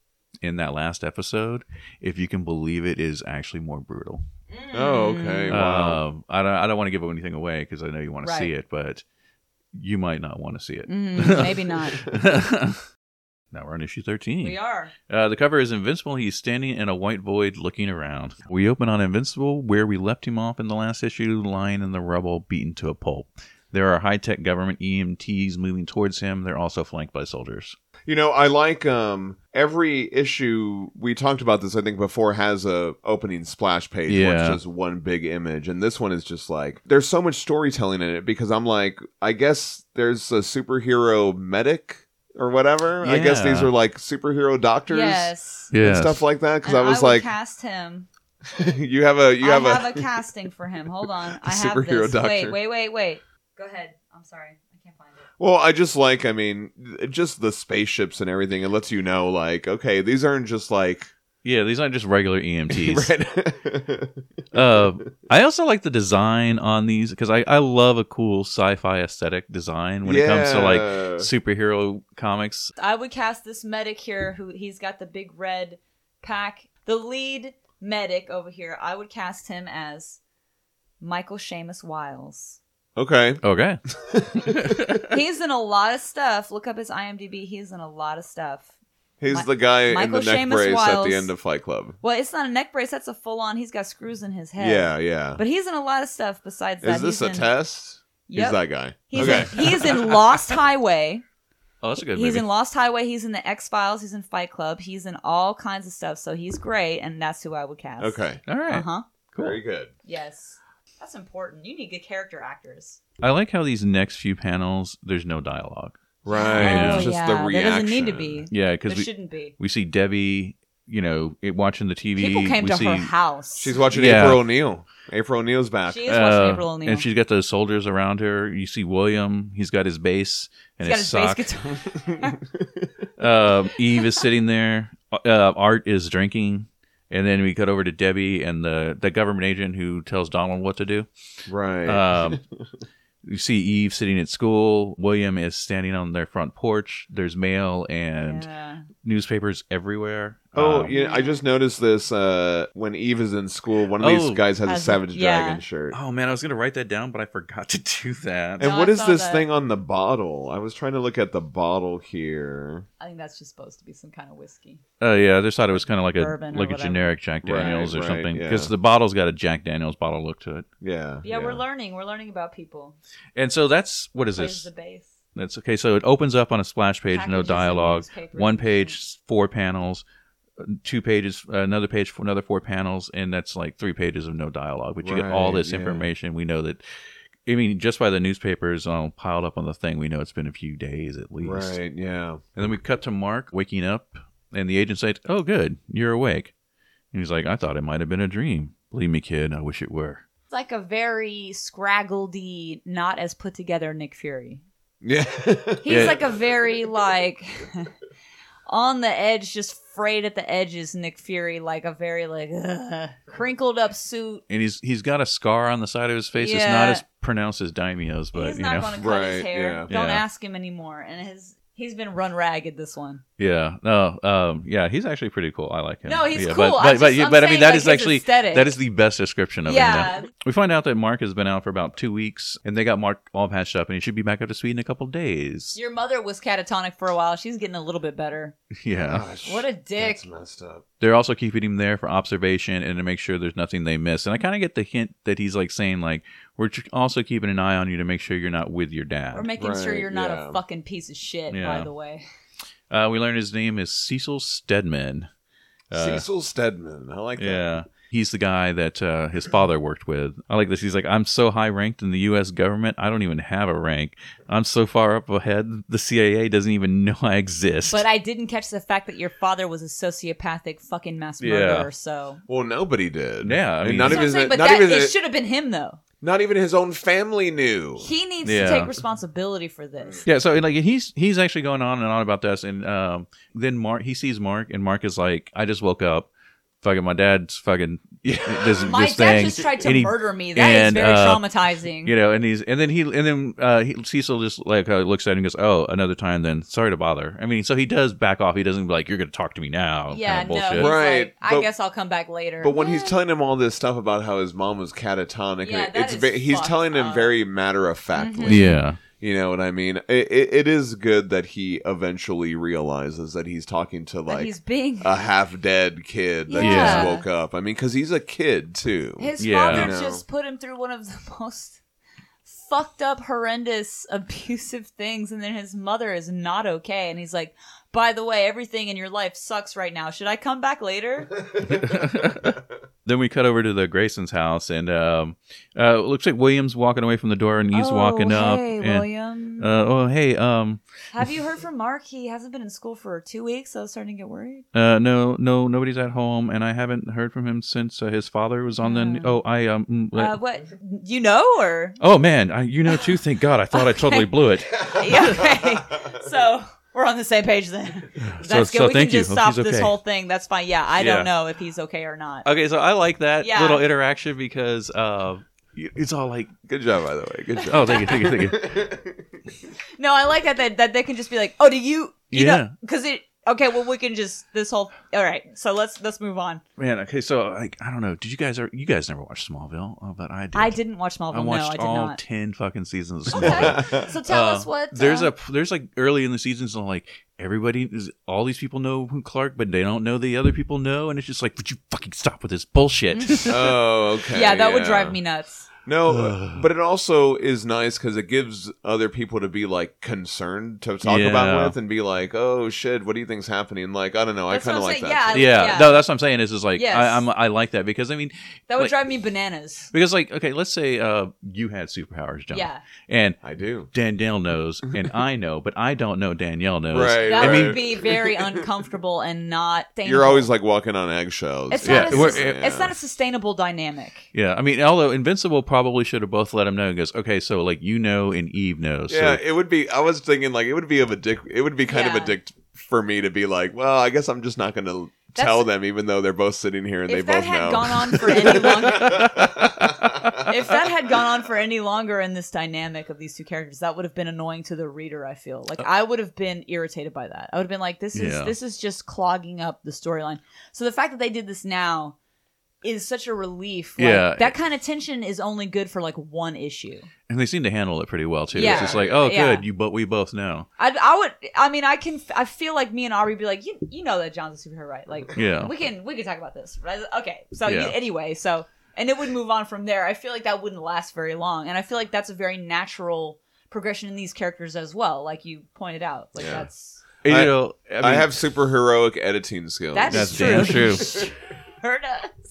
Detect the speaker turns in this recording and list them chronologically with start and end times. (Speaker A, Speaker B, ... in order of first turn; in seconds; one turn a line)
Speaker A: 0.4-4.2
Speaker B: 4.5-5.6
Speaker C: 4.7-6.0
Speaker A: 5.5-9.0
Speaker B: 8.2-8.5
Speaker A: 9.7-12.8
Speaker B: 10.9-12.0
Speaker A: 13.5-27.8
Speaker B: 14.4-14.9
Speaker C: 28.1-47.3
Speaker A: 34.1-34.6
Speaker A: 43.0-43.7
Speaker B: 44.9-45.7
Speaker A: 45.7-46.2
Speaker B: 46.6-48.1
Speaker C: 48.5-50.1
Speaker B: 49.4-55.3
Speaker C: 51.0-52.6
Speaker C: 55.4-61.1
Speaker A: 61.4-63.1
Speaker C: 62.7-64.2
Speaker A: 64.5-72.7
Speaker C: 70.0-71.3
Speaker B: 72.8-80.2
Speaker B: 81.0-82.6
Speaker C: 83.0-83.4
Speaker A: 83.4-83.8
Speaker C: 84.0-85.0
Speaker A: 84.5-85.1
Speaker B: 85.1-88.7
Speaker C: 89.2-92.0
Speaker B: 89.3-91.3
Speaker B: 92.0-97.5
Speaker C: 94.6-95.4
Speaker C: 96.8-100.2
Speaker B: 98.3-101.2
Speaker A: 99.2-99.6
Speaker A: 101.8-102.5
Speaker B: 102.1-109.0
Speaker C: 108.0-108.4
Speaker A: 108.5-109.6
Speaker C: 109.4-109.9
Speaker B: 110.0-113.0
Speaker A: 113.2-116.0
Speaker C: 116.2-118.5
Speaker B: 116.3-119.5
Speaker A: 116.5-117.1
Speaker A: 118.5-123.1
Speaker B: 122.2-123.8
Speaker C: 123.6-126.1
Speaker A: 123.9-124.4
Speaker B: 125.9-127.1
Speaker A: 126.1-131.4
Speaker B: 130.8-132.4
Speaker C: 131.9-133.1
Speaker A: 133.2-141.1
Speaker C: 141.5-142.7
Speaker A: 141.9-142.4
Speaker A: 143.2-148.5
Speaker B: 148.2-148.9
Speaker A: 149.0-150.9
Speaker C: 150.6-156.0
Speaker B: 150.9-151.4
Speaker A: 154.0-154.4
Speaker B: 154.7-155.6
Speaker A: 155.9-158.7
Speaker C: 158.6-162.9
Speaker B: 158.6-159.5
Speaker B: 163.0-164.8
Speaker A: 165.0-170.7
Speaker B: 166.2-167.9
Speaker C: 167.4-168.7
Speaker C: 170.8-171.6
Speaker B: 171.2-173.0
Speaker A: 173.4-174.7
Speaker B: 174.3-175.1
Speaker A: 175.3-180.0
Speaker B: 177.1-179.0
Speaker A: 180.6-186.8
Speaker C: 185.0-186.1
Speaker A: 187.5-191.8
Speaker C: 191.4-192.4
Speaker A: 192.6-196.5
Speaker A: 197.1-200.2
Speaker B: 200.5-204.6
Speaker C: 205.0-206.4
Speaker B: 205.8-207.9
Speaker A: 205.9-206.2
Speaker B: 208.7-214.4
Speaker A: 214.5-218.9
Speaker B: 216.4-217.0
Speaker B: 218.3-223.2
Speaker C: 219.0-219.9
Speaker A: 219.9-220.2
Speaker A: 223.4-235.8
Speaker B: 226.1-228.8
Speaker B: 229.7-230.3
Speaker B: 235.8-238.6
Speaker A: 238.8-239.3
Speaker C: 238.9-240.8
Speaker B: 239.4-240.2
Speaker A: 241.0-249.5
Speaker B: 249.3-252.2
Speaker C: 249.6-250.6
Speaker A: 251.5-251.9
Speaker A: 252.9-255.3
Speaker A: 255.9-256.2
Speaker C: 255.9-257.7
Speaker A: 257.4-268.0
Speaker B: 267.9-272.4
Speaker A: 271.4-271.9
Speaker C: 272.5-275.1
Speaker A: 273.4-274.3
Speaker B: 274.0-276.0
Speaker C: 276.2-278.1
Speaker B: 278.0-280.2
Speaker A: 278.4-278.9
Speaker A: 280.3-286.3
Speaker A: 286.8-291.5
Speaker C: 288.3-288.9
Speaker B: 288.8-292.1
Speaker A: 292.0-300.9
Speaker B: 300.1-303.2
Speaker C: 300.8-301.7
Speaker C: 302.6-320.2
Speaker B: 305.6-307.4
Speaker B: 308.1-308.8
Speaker A: 308.5-309.0
Speaker B: 314.3-315.2
Speaker B: 316.5-317.2
Speaker A: 316.6-317.1
Speaker B: 319.2-321.8
Speaker A: 319.4-319.9
Speaker B: 322.5-331.4
Speaker A: 331.6-340.8
Speaker B: 337.7-339.7
Speaker B: 341.1-344.6
Speaker A: 344.7-350.4
Speaker B: 348.8-349.4
Speaker B: 350.1-352.0
Speaker A: 352.0-355.4
Speaker B: 352.9-353.1
Speaker B: 353.7-362.5
Speaker A: 358.2-359.9
Speaker A: 361.0-361.3
Speaker A: 362.4-366.5
Speaker B: 363.4-363.9
Speaker C: 366.7-369.4
Speaker A: 367.6-368.8
Speaker B: 370.0-376.6
Speaker A: 372.3-372.7
Speaker A: 376.8-380.8
Speaker B: 380.5-382.2
Speaker A: 381.3-393.7
Speaker B: 383.3-385.3
Speaker C: 383.4-384.1
Speaker B: 393.1-393.7
Speaker C: 393.5-395.2
Speaker B: 394.3-395.7
Speaker C: 395.9-405.8
Speaker A: 396.1-396.7
Speaker A: 401.0-401.8
Speaker B: 404.5-406.0
Speaker A: 405.3-408.9
Speaker B: 406.8-407.3
Speaker B: 408.7-409.9
Speaker A: 409.9-417.8
Speaker B: 412.5-412.9
Speaker C: 413.4-413.9
Speaker C: 416.9-418.6
Speaker B: 417.2-420.5
Speaker C: 420.1-422.9
Speaker B: 421.7-424.3
Speaker A: 421.8-422.6
Speaker A: 424.3-429.4
Speaker C: 429.1-440.4
Speaker B: 431.9-432.4
Speaker B: 435.4-435.7
Speaker B: 437.1-439.4
Speaker A: 438.9-440.4
Speaker B: 440.4-452.2
Speaker A: 448.1-448.5
Speaker B: 452.8-457.1
Speaker A: 454.0-454.6
Speaker A: 457.3-460.7
Speaker B: 458.5-459.6
Speaker C: 458.5-459.2
Speaker B: 460.8-477.0
Speaker A: 465.4-465.7
Speaker A: 467.7-467.9
Speaker C: 476.4-476.7
Speaker A: 477.2-478.3
Speaker C: 477.2-481.3
Speaker B: 479.9-482.4
Speaker A: 480.1-481.1